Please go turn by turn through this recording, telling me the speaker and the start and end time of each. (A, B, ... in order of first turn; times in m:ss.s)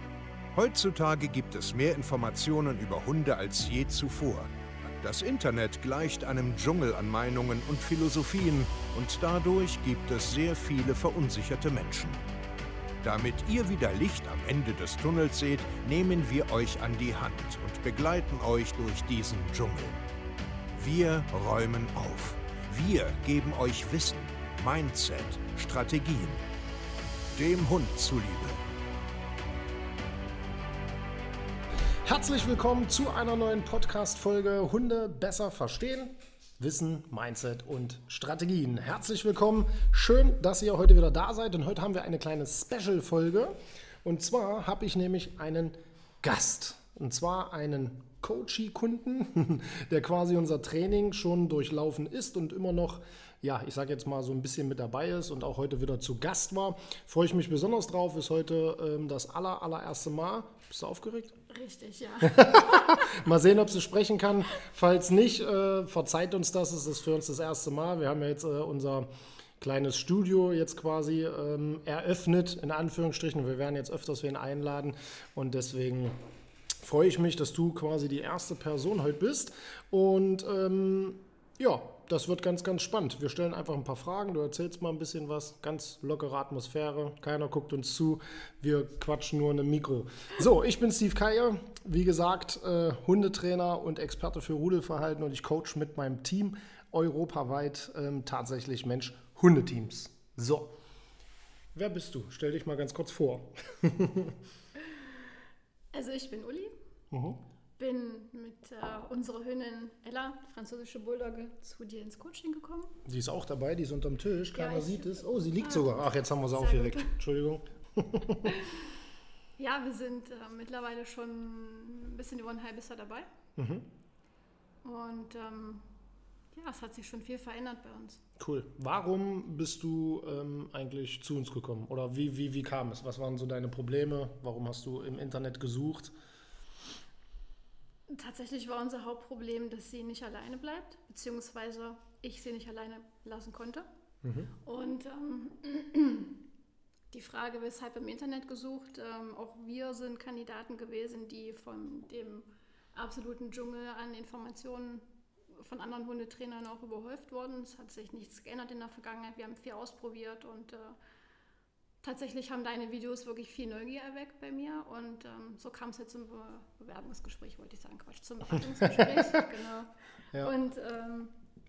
0:00.5-0:12.2 A
0:13.0-0:20.0 A
0:20.7-0:26.4 A
0:27.3-0:28.6 A
0:32.0-1:01.4 B
1:01.5-1:03.0 C
1:02.2-1:16.2 B
1:16.8-1:40.7 B
1:41.7-1:44.4 B
1:45.9-1:46.7 C
1:47.1-1:47.4 B
1:47.8-1:53.0 C
1:53.0-1:58.6 B
1:54.5-1:57.1 C
1:58.4-1:58.8 C
1:59.6-2:03.3 C
2:03.6-2:03.9 B
2:04.8-2:05.9 C
2:06.5-2:08.2 C
2:08.4-2:16.1 B
2:18.1-2:23.9 C
2:24.2-2:24.5 B
2:24.6-2:26.4 C
2:27.1-2:41.0 C
2:42.0-2:51.3 C
2:48.6-2:49.4 B